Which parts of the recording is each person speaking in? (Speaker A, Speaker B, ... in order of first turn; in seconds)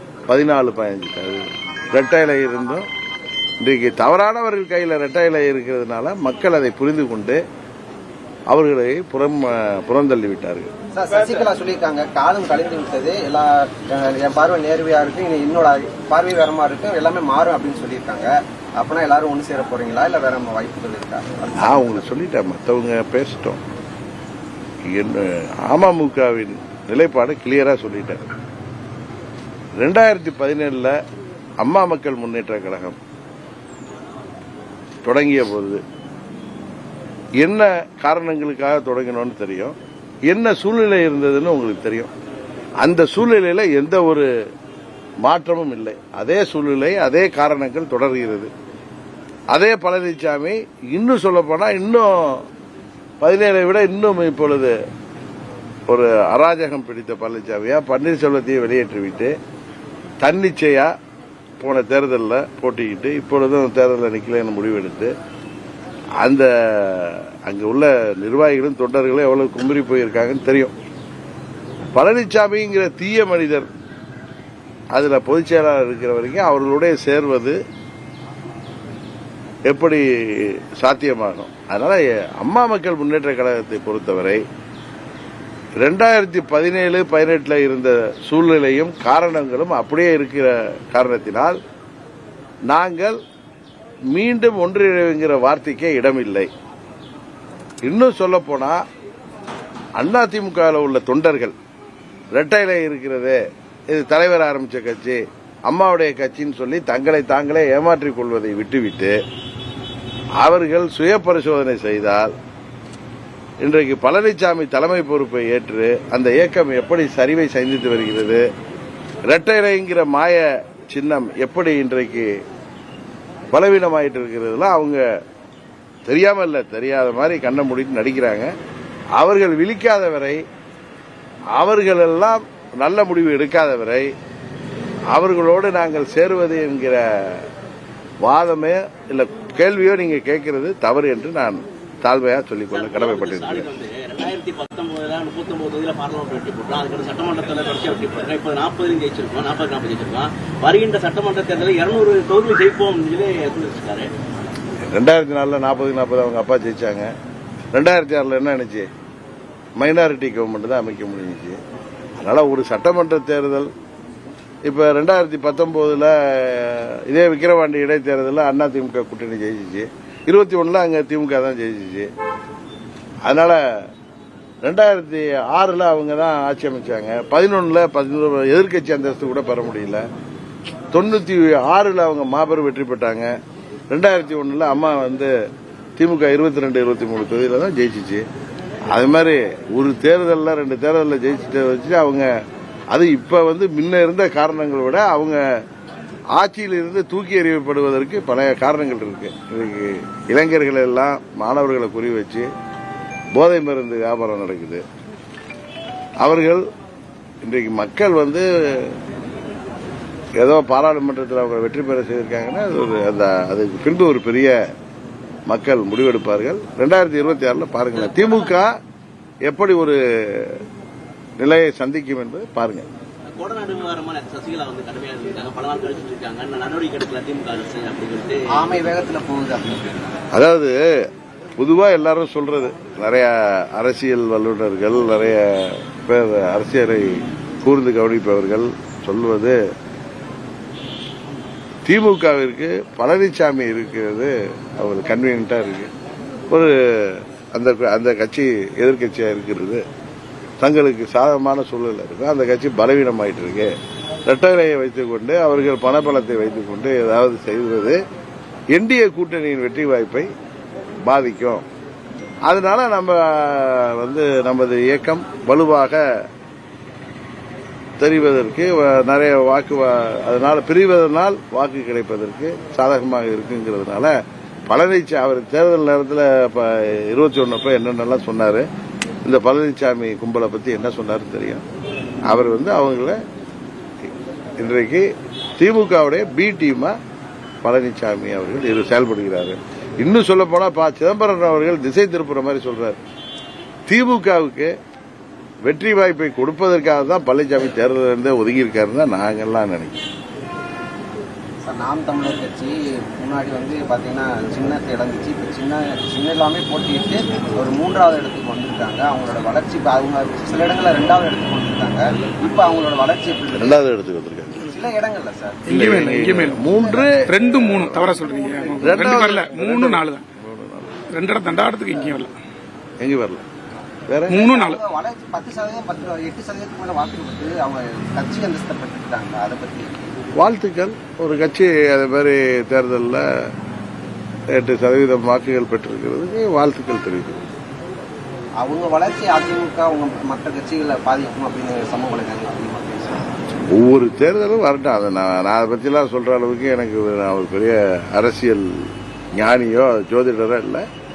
Speaker A: 0.3-2.9, 3.6-7.4, 8.5-10.7, 21.6-23.6, 24.9-28.2, 29.8-30.9, 31.6-33.0, 35.0-35.8, 37.4-39.8, 40.3-42.1, 42.8-44.3, 45.2-48.5, 49.5-52.5, 53.2-54.7, 55.9-59.3, 60.2-60.9, 61.6-65.1, 66.2-70.7, 71.9-73.7, 74.9-77.6, 79.7-84.4, 85.8-91.6, 92.7-93.2, 94.1-96.5, 97.8-98.8, 100.0-101.5, 102.3-109.2, 110.4-112.3, 113.6-118.4, 119.2-122.3, 123.5-125.0, 126.1-128.5, 129.2-130.4, 131.5-134.1, 135.1-137.5, 138.2-143.7, 154.9-157.1, 157.7-158.9, 159.8-161.6, 162.2-163.7, 164.7-172.1, 173.2-173.6, 174.6-180.0, 180.9-183.3, 183.9-185.3, 186.0-188.2, 188.9-192.3, 192.9-195.4, 196.3-202.5, 203.3-204.8, 206.2-206.6, 207.4-209.0, 210.4-214.6, 215.5-218.7, 219.5-220.6, 221.4-222.9, 230.3-230.8, 231.6-239.6, 241.8-245.9, 246.5-249.8, 250.6-253.7, 254.2-258.0, 258.7-260.3, 261.1-261.6, 262.4-266.0, 268.0-274.1, 274.7-278.6, 279.2-281.6, 282.3-283.2, 284.6-285.1, 285.6-286.9, 287.6-293.0, 293.9-294.7, 295.6-300.0, 313.5-314.7, 315.7-318.2, 318.7-321.1, 323.0-323.4, 324.1-324.4, 330.4-333.2, 334.5-337.5, 343.7-350.8
Speaker B: 10.9-22.0, 228.5-230.0, 301.6-313.8, 314.6-315.6, 316.7-317.0, 324.3-330.1, 338.6-343.3
Speaker C: 142.7-154.1, 217.9-218.5, 223.4-228.7
Speaker D: 315.6-320.2, 321.1-322.3, 324.3-324.8